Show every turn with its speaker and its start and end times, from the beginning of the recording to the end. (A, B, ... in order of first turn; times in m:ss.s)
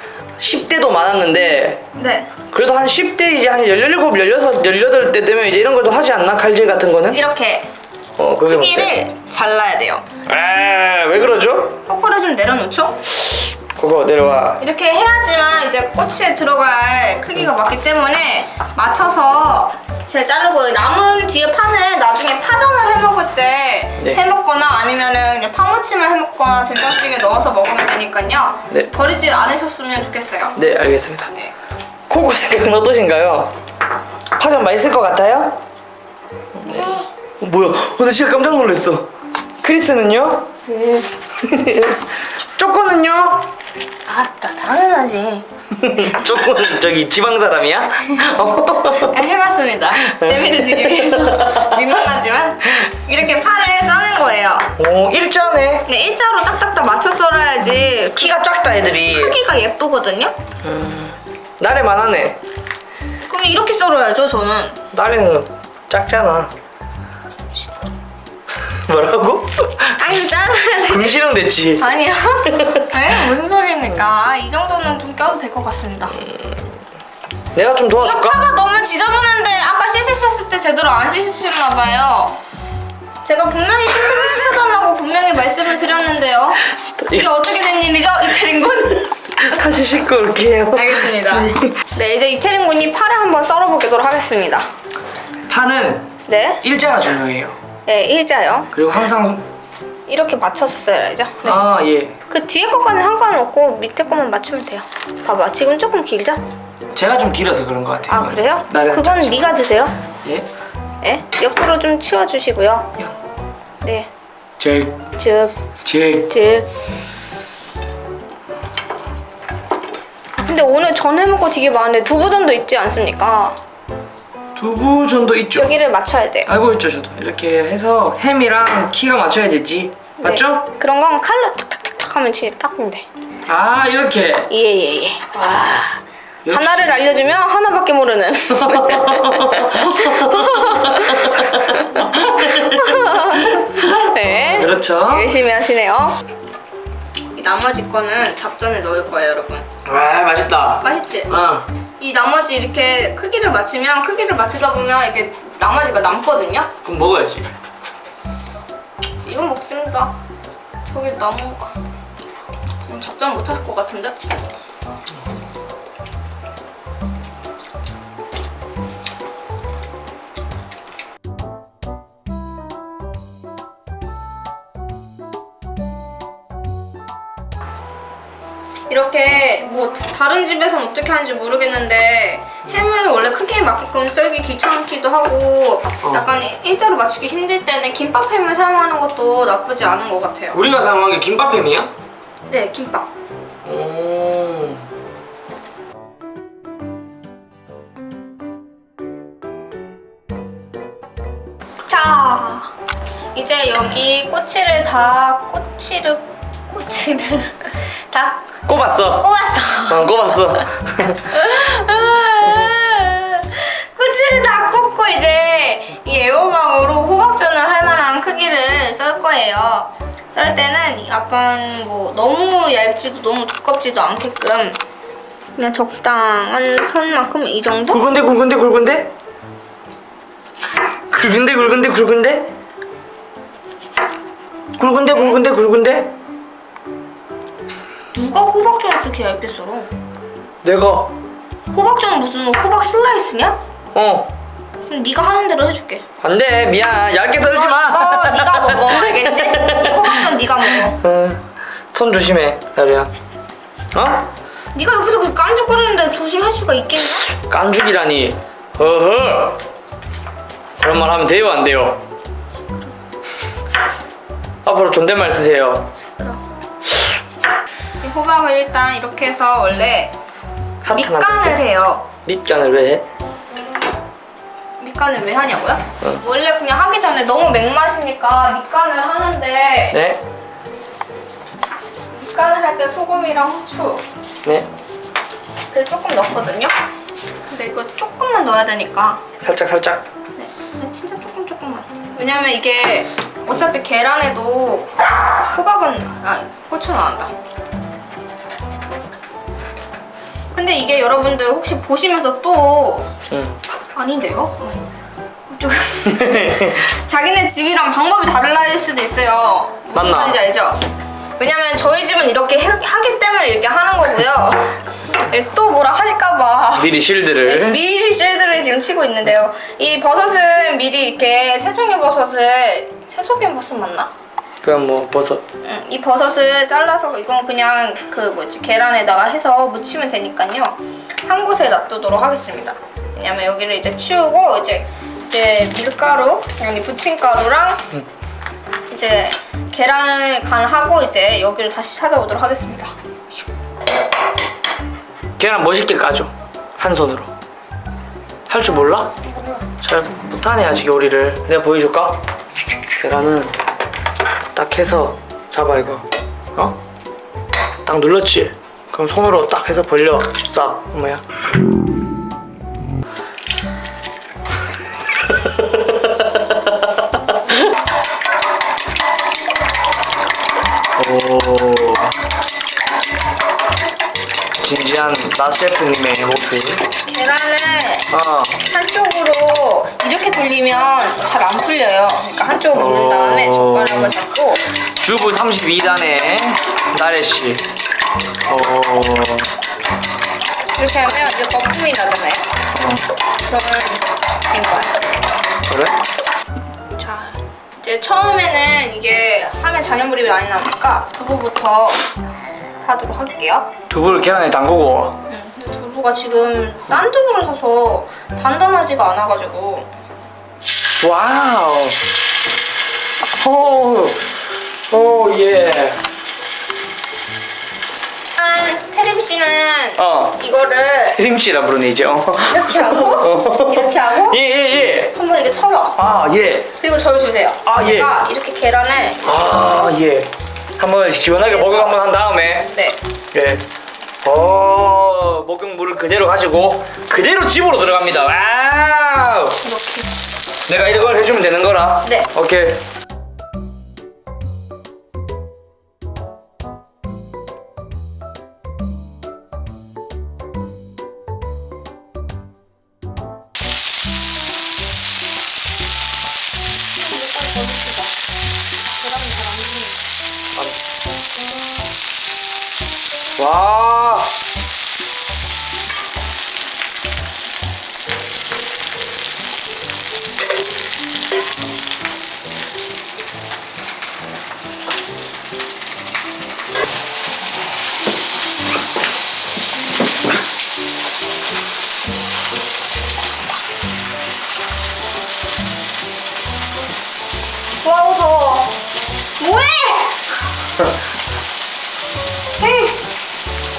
0:00.4-0:01.8 A
0:02.0-0:02.3 B
0:02.5-0:07.2 A
0:07.1-0:07.7 B
0:08.2-0:08.9 A
0:08.4-0:10.0 B
0:10.3-0:11.8 A
0:11.8-0:13.1 B
0:13.8-0:14.6 A
0:14.6-0:30.6 B
0:30.6-0:31.3 A
0:32.1-0:33.5 A
0:34.4-0:35.6 A
0:36.6-0:39.1 A
0:36.7-0:37.0 B
0:39.6-0:40.5 A
0:40.7-0:41.1 B
0:41.4-0:42.0 A
0:42.6-0:43.5 A
0:44.1-0:45.4 B
0:45.7-0:49.2 A
0:49.0-0:54.7 B
0:50.0-0:51.8 A
0:54.8-0:55.9 A
0:55.9-0:58.4 B
0:58.1-0:59.4 A
0:59.1-1:00.3 B
1:00.6-1:02.4 A
1:03.2-1:04.8 B
1:04.9-1:06.5 A
1:08.9-1:10.0 A
1:10.0-1:11.1 B
1:10.8-1:11.8 A
1:11.8-1:16.2 B
1:12.5-1:12.8 A
1:16.2-1:16.7 A
1:17.5-1:18.5 A
1:18.0-1:22.4 B
1:23.2-1:29.2 B
1:27.0-1:27.3 A
1:29.3-1:31.7 A
1:30.7-1:34.7 B
1:35.5-1:36.1 A
1:36.3-1:36.6 B
1:36.6-1:37.6 A
1:37.9-1:38.7 B
1:38.7-1:39.4 A
1:40.1-1:41.6 B
1:41.4-1:42.2 A
1:42.3-1:46.4 B
1:46.9-1:49.6 A
1:48.1-1:49.9 B
1:51.0-1:52.9 B
1:53.8-1:54.1 B
1:54.6-1:55.0 A
1:55.2-1:55.6 B
1:55.8-1:56.3 A
1:56.3-1:56.7 B
2:00.4-2:03.6 B
2:04.6-2:05.8 A
2:05.6-2:06.5 B
2:06.4-2:10.7 A
2:10.2-2:13.1 B
2:13.5-2:14.5 A
2:14.5-2:26.1 B
2:16.4-2:16.9 A
2:18.5-2:25.3 A
2:27.4-2:29.7 B
2:29.8-2:31.7 A
2:30.8-2:31.3 B
2:32.0-2:36.7 B
2:36.8-2:37.5 A
2:39.2-2:40.1 B
2:40.9-2:41.8 B
2:42.9-2:44.4 B
2:58.9-3:10.6 B
3:10.5-3:11.9 A
3:12.5-3:13.1 B
3:13.6-3:14.8 A
3:21.9-3:22.7 B
3:23.3-3:30.1 B
3:28.7-3:29.3 A
3:29.9-3:31.2 A
3:31.2-3:44.8 B
3:45.6-3:48.0 B
3:47.9-3:49.1 A
3:51.1-3:52.5 A
3:54.8-3:56.1 A
3:58.1-3:59.9 B
4:00.6-4:01.1 A
4:01.7-4:03.6 B
4:04.0-4:04.3 A
4:04.9-4:06.0 B
4:06.2-4:10.3 A
4:07.4-4:11.0 B
4:10.8-4:11.4 A
4:11.9-4:13.1 A
4:13.9-4:14.3 A
4:14.7-4:17.3 B
4:17.5-4:19.6 A
4:20.8-4:22.0 A
4:22.6-4:22.9 B
4:24.6-4:25.9 A
4:26.0-4:26.4 B
4:28.0-4:30.2 B
4:30.8-4:31.6 A
4:30.9-4:32.1 B
4:32.2-4:33.0 A
4:34.8-4:40.0 B
4:39.9-4:40.2 A
4:42.1-4:44.0 B
4:45.7-4:46.7 B
4:47.5-4:49.2 B
4:49.4-4:50.0 A
4:50.4-4:57.3 B
5:00.5-5:03.1 B
5:03.3-5:03.6 A
5:03.9-5:04.8 B
5:05.5-5:10.8 B
5:06.1-5:06.8 A
5:09.9-5:10.4 A
5:11.4-5:16.9 B
5:16.8-5:17.8 A
5:17.4-5:24.1 B
5:24.6-5:25.4 A
5:25.6-5:37.8 B
5:38.9-5:42.9 B
5:45.4-5:47.3 A
5:48.5-5:49.2 A
5:49.8-5:52.2 A
5:53.0-5:53.5 A
5:54.6-5:56.8 A
5:57.8-6:01.2 A
6:05.4-6:06.7 A
6:11.0-6:12.1 A
6:14.6-6:16.9 A
6:17.0-6:18.1 B
6:18.1-6:18.6 A
6:18.6-6:24.6 B
6:22.7-6:24.2 A
6:25.0-6:27.7 A
6:28.5-6:29.5 A
6:30.8-6:32.6 B
6:33.5-6:35.0 B
6:35.7-6:36.0 A
6:37.0-6:42.0 B
6:42.8-6:43.7 B
6:43.9-6:45.2 A
6:45.3-6:49.9 B
6:51.0-6:52.0 A
6:53.2-6:54.2 A
6:54.9-6:56.0 A
6:58.4-7:01.2 B
7:00.0-7:00.4 A
7:01.2-7:05.1 A
7:02.5-7:04.4 B
7:05.1-7:06.0 B
7:06.0-7:06.7 A
7:06.8-7:10.0 B
7:07.7-7:08.1 A
7:09.2-7:12.7 A
7:11.4-7:12.1 B
7:12.7-7:13.0 B
7:13.3-7:13.6 A
7:14.2-7:19.6 A
7:19.6-7:20.1 B
7:20.7-7:22.8 A
7:37.0-7:38.1 B
7:39.0-7:40.0 B
7:43.4-7:44.3 A
8:07.8-8:08.8 B
8:09.4-8:10.2 B
8:12.6-8:13.0 B